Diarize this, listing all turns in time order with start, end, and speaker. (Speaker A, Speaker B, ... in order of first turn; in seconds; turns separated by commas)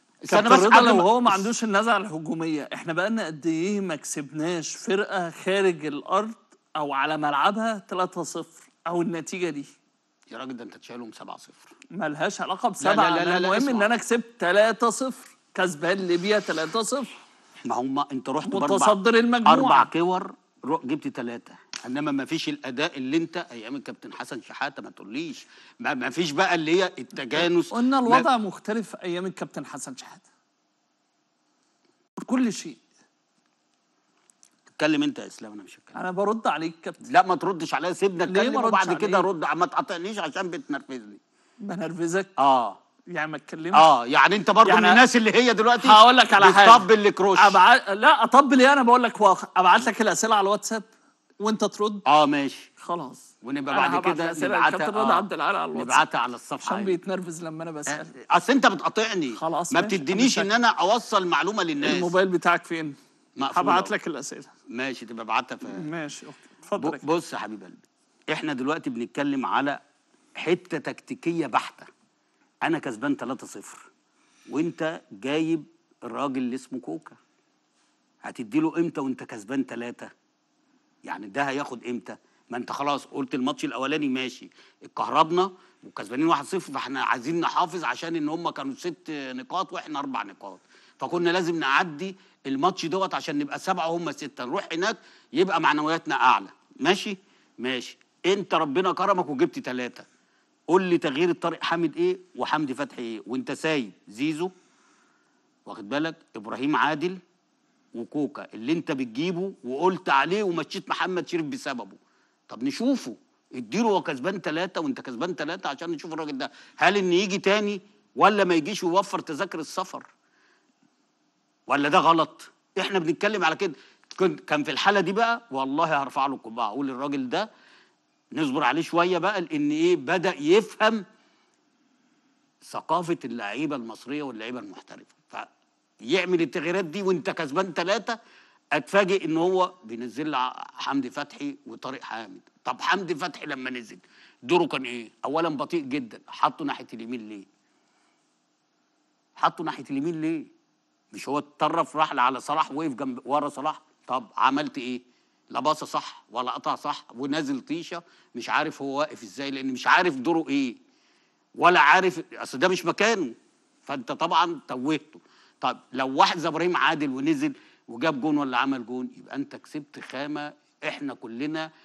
Speaker A: 0.2-1.5, Speaker B: 0.3-9.7, Speaker A: 10.3-11.7, Speaker B: 11.9-17.1, Speaker A: 12.8-13.9, Speaker A: 17.6-28.2, Speaker B: 18.4-19.9, Speaker B: 27.3-30.3, Speaker B: 32.2-32.8, Speaker A: 34.8-36.0, Speaker B: 35.9-37.0, Speaker A: 37.1-41.2, Speaker B: 38.2-39.3, Speaker B: 41.6-42.3, Speaker A: 42.4-42.8, Speaker B: 43.1-43.9, Speaker A: 43.7-47.6, Speaker B: 44.6-45.0, Speaker B: 45.8-46.8, Speaker B: 47.4-50.9, Speaker B: 51.4-52.0, Speaker A: 52.0-52.7, Speaker B: 52.8-56.0, Speaker A: 53.4-57.0, Speaker B: 56.6-58.1, Speaker A: 57.9-62.1, Speaker B: 59.3-60.5, Speaker B: 61.8-63.0, Speaker A: 63.4-63.9, Speaker B: 63.5-64.5, Speaker A: 64.7-65.8, Speaker B: 65.7-67.0, Speaker A: 66.8-69.8, Speaker A: 70.4-71.9, Speaker A: 72.6-73.9, Speaker A: 74.5-77.2, Speaker A: 78.2-80.1, Speaker A: 81.0-100.0, Speaker A: 100.7-104.5, Speaker A: 105.7-107.2, Speaker A: 107.9-112.0, Speaker A: 112.5-120.1, Speaker A: 121.7-127.5, Speaker A: 128.3-131.0, Speaker A: 132.6-135.5, Speaker A: 136.1-138.2, Speaker A: 138.7-147.5, Speaker A: 149.4-150.5, Speaker A: 151.1-155.0, Speaker A: 155.5-160.8, Speaker A: 161.6-163.3, Speaker A: 163.8-171.7